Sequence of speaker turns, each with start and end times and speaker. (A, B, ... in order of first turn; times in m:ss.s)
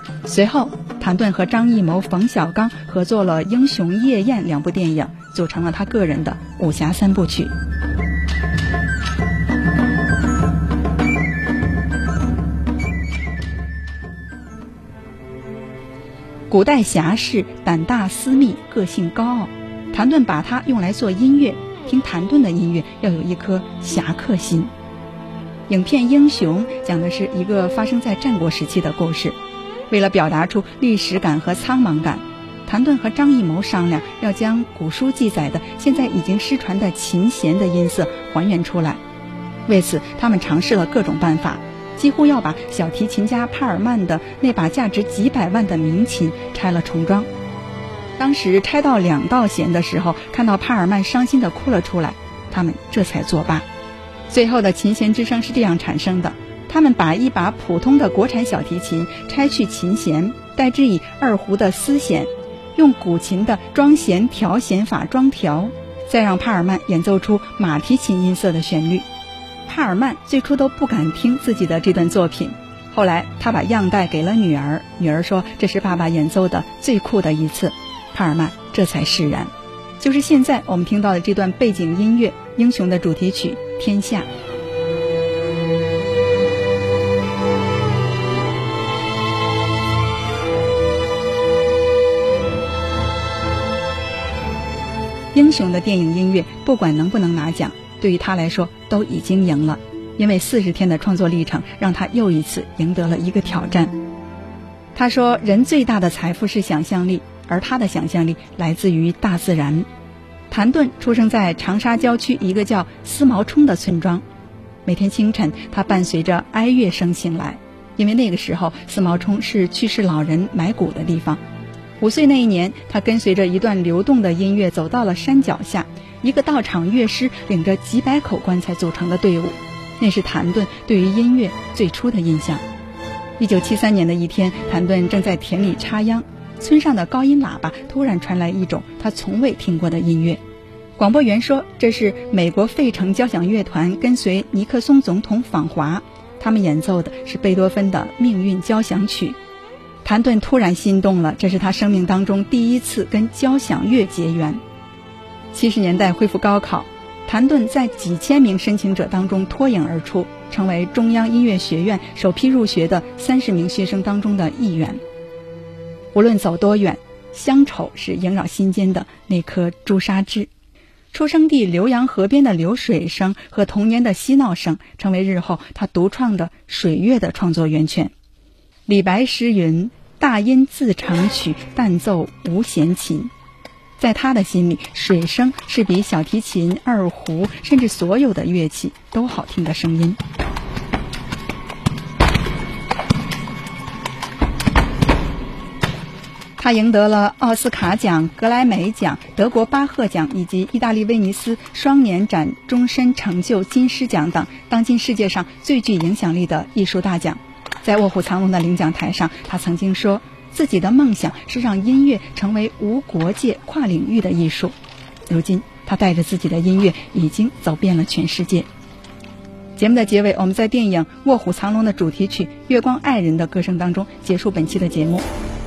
0:00.2-0:07.5 A
0:16.5-0:24.7 A
0:25.7-0:29.4 A
0:29.9-0:39.0 A
0:39.7-0:47.3 A
0:48.2-0:53.7 A
0:54.3-1:09.1 A
1:09.6-1:24.3 A
1:35.3-1:43.9 A
1:44.9-1:49.9 A
1:50.5-1:54.2 A
1:54.8-2:01.4 A
2:02.0-2:12.6 A
2:13.4-2:20.4 A
2:21.0-2:29.4 A
2:30.0-2:34.6 A
2:35.5-2:45.0 A
2:46.1-2:50.5 A
2:51.1-2:58.1 A
2:58.9-3:03.3 A
3:04.0-3:10.2 A
3:16.6-3:34.7 A
3:35.3-3:38.7 A
3:39.8-3:45.2 A